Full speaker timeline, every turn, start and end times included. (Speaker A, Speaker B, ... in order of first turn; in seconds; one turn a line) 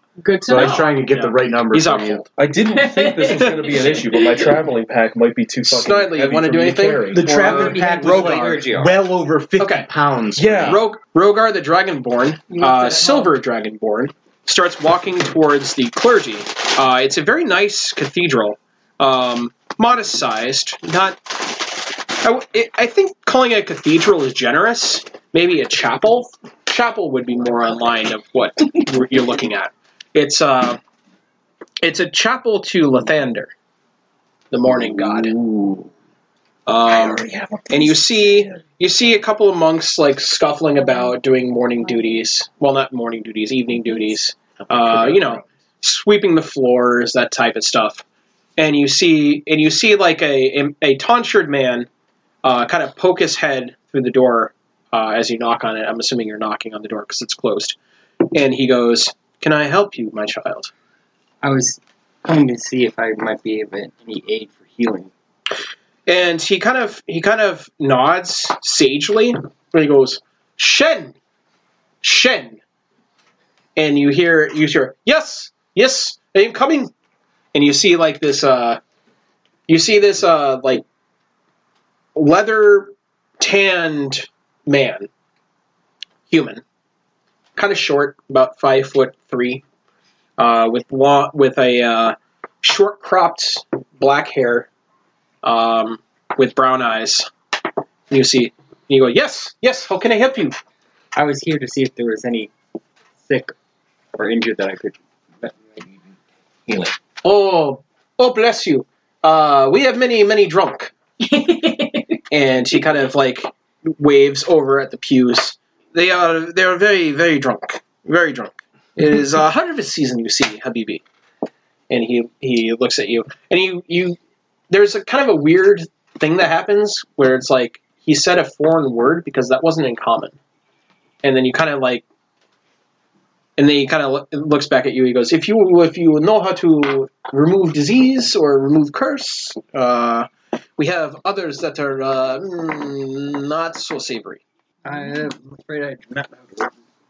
Speaker A: 0.2-0.9
Speaker B: 0.5-2.2
Speaker C: 0.6-2.3
Speaker D: 2.4-7.3
Speaker A: 2.7-4.5
Speaker C: 3.4-3.8
Speaker C: 5.7-8.5
Speaker B: 7.1-10.8
Speaker E: 7.2-8.9
Speaker C: 9.6-9.9
Speaker D: 10.4-10.8
Speaker C: 10.6-30.8
Speaker A: 12.5-13.3
Speaker C: 31.8-33.5
Speaker C: 34.5-35.3
Speaker B: 35.2-35.9
Speaker C: 36.7-48.0
Speaker B: 36.9-37.9
Speaker B: 44.7-45.0
Speaker C: 48.6-51.9
Speaker C: 52.4-57.8
Speaker C: 58.3-60.7
Speaker E: 61.4-65.1
Speaker C: 66.1-71.1
Speaker C: 72.0-72.6
Speaker C: 73.8-76.9
Speaker C: 77.5-78.8
Speaker C: 79.7-80.8
Speaker C: 82.2-85.1
Speaker C: 86.3-86.6
Speaker C: 87.6-89.6
Speaker C: 90.4-94.7
Speaker C: 95.4-97.3
Speaker C: 98.1-100.6
Speaker E: 101.1-102.5
Speaker E: 103.3-103.5
Speaker E: 104.2-106.0
Speaker E: 106.7-107.0
Speaker C: 107.2-110.9
Speaker A: 111.2-112.2
Speaker C: 112.3-121.0
Speaker C: 121.9-124.2
Speaker C: 124.7-130.3
Speaker C: 131.2-132.1
Speaker C: 133.6-144.4
Speaker E: 144.8-146.7